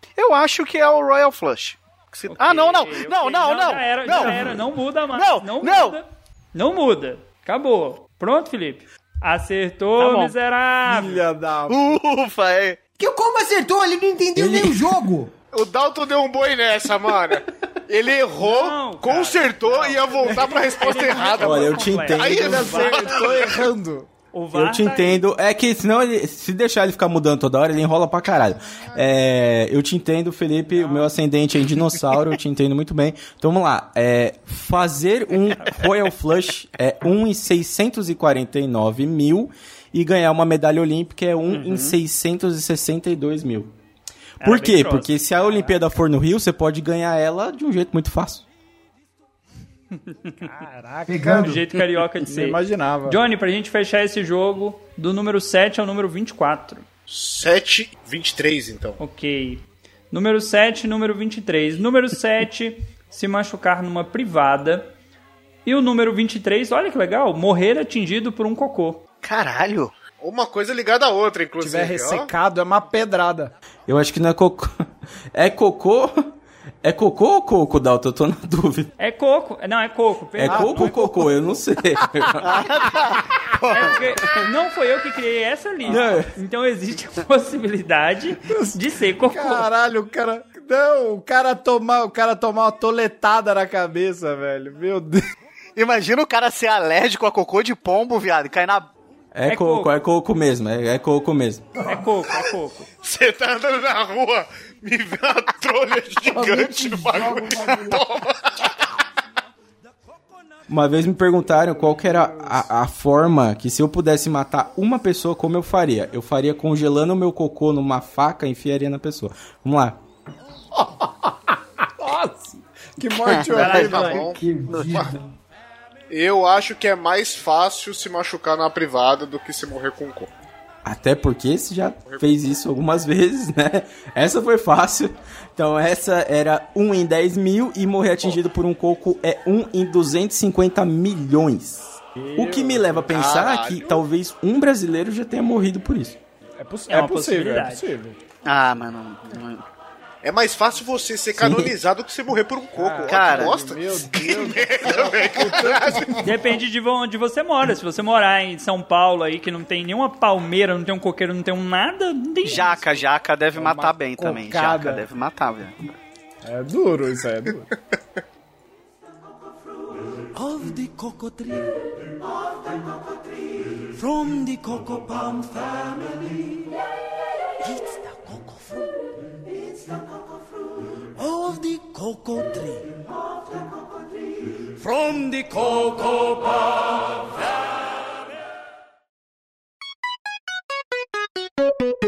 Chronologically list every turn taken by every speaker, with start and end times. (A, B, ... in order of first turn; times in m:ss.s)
0:00.2-0:06.0 A
0:02.3-0:11.2 B
0:10.0-0:10.3 A
0:10.8-0:11.8 C
0:11.7-0:12.8 A
0:13.0-0:15.3 D
0:14.4-0:15.0 E
0:15.5-0:23.7 F
0:18.4-0:23.2 B
0:20.2-0:21.1 C
0:21.4-0:22.8 E
0:22.2-0:24.1 C
0:24.3-0:25.2 B
0:24.5-0:43.7 E
0:30.7-0:31.1 B
0:35.6-0:35.9 B
0:41.5-0:42.0 A
0:44.4-0:45.4 B
0:44.4-0:48.5 E
0:50.0-0:50.5 B
0:50.4-0:51.6 C
0:51.1-0:51.6 D
0:51.2-0:56.8 B
0:52.2-0:53.2 C
0:57.1-0:59.0 F
0:59.0-1:04.9 B
1:05.6-1:09.0 B
1:09.2-1:10.0 A
1:10.2-1:12.3 F
1:11.6-1:13.5 C
1:13.9-1:14.8 E
1:15.3-1:16.3 E
1:16.8-1:18.9 E
1:19.0-1:21.0 B
1:20.4-1:22.7 E
1:20.5-1:21.5 C
1:22.4-1:24.0 A
1:23.7-1:29.7 B
1:25.8-1:26.2 C
1:25.9-1:26.3 E
1:28.5-1:35.2 C
1:35.8-1:38.9 A
1:39.3-1:41.7 E
1:39.5-1:39.9 B
1:41.9-1:42.9 B
1:43.0-1:48.7 F
1:46.3-1:48.1 D
1:50.7-2:00.0 E
1:51.9-1:52.6 C
2:00.7-2:04.4 C
2:03.5-2:04.3 B
2:03.5-2:05.1 F
2:04.0-2:05.3 D
2:06.1-2:10.3 F
2:10.8-2:26.2 E
2:12.1-2:12.4 F
2:22.2-2:23.3 C
2:23.1-2:24.0 F
2:26.6-2:28.2 C
2:26.9-2:27.9 B
2:28.4-2:29.6 A
2:30.2-2:36.2 F
2:31.4-2:31.7 E
2:32.7-2:36.2 C
2:33.1-2:33.6 A
2:36.2-2:42.8 B
2:42.5-2:45.8 A
2:42.6-2:43.0 C
2:43.5-2:45.0 C
2:46.4-2:47.7 C
2:50.4-2:51.6 G
2:54.0-2:56.3 G
2:57.6-2:58.8 G
3:01.2-3:02.8 G
3:04.8-3:05.6 G